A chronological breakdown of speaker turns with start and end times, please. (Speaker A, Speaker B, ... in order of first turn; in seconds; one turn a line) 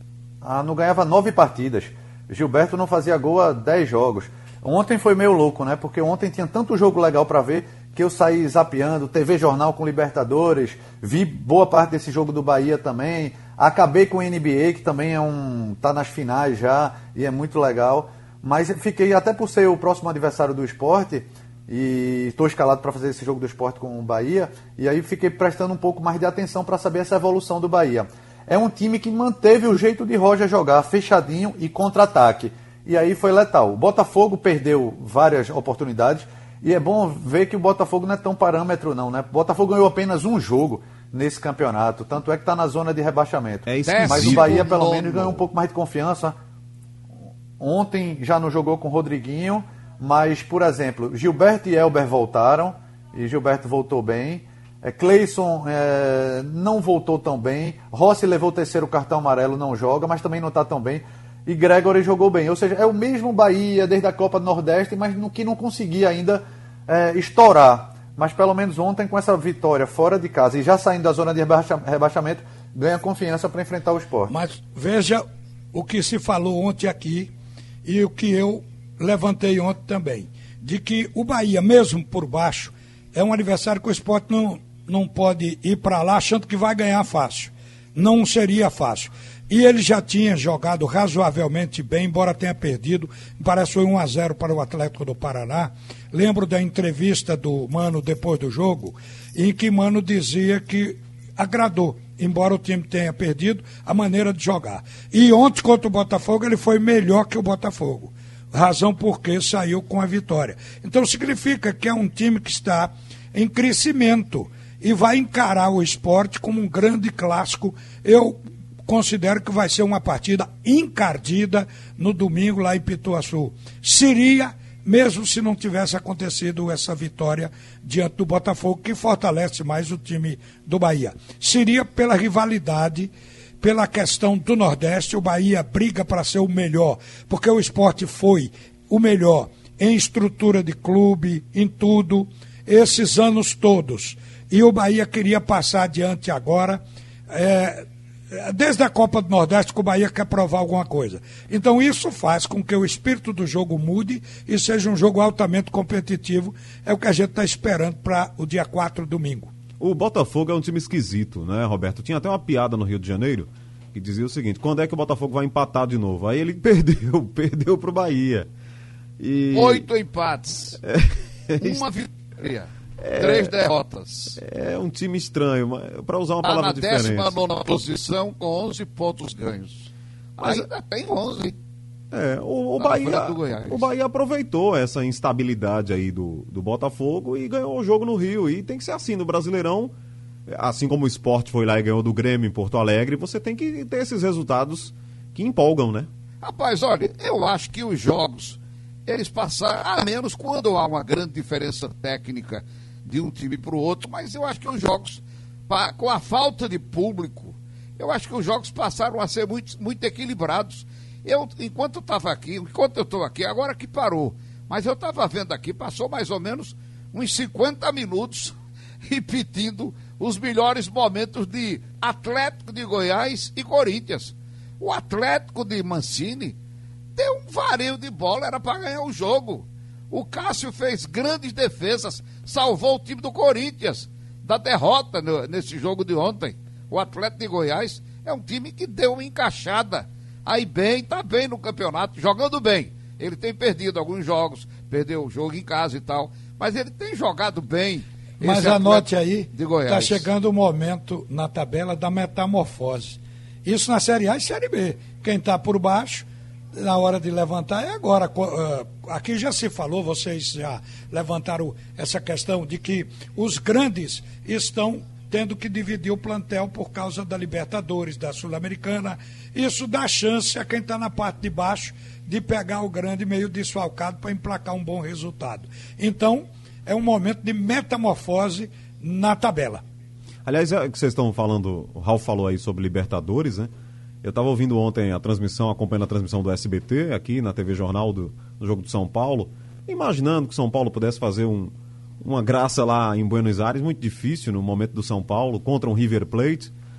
Speaker A: 0.4-46.4
Speaker B: 43.7-45.2
Speaker C: 43.9-45.4
Speaker A: 47.6-74.3
Speaker D: 74.3-77.3
Speaker D: 77.8-159.5
Speaker B: 159.8-168.5
Speaker B: 169.2-169.9
Speaker C: 169.5-170.8
Speaker B: 170.8-171.8
Speaker C: 171.6-174.4
Speaker B: 173.0-173.5
Speaker B: 174.3-177.4
Speaker C: 176.4-181.6
Speaker B: 180.4-180.7
Speaker B: 182.1-189.9
Speaker C: 182.8-183.9
Speaker B: 190.5-196.1
Speaker C: 196.4-226.6
Speaker C: 227.2-250.3
Speaker D: 248.4-279.8
Speaker B: 280.4-283.7
Speaker B: 284.2-296.7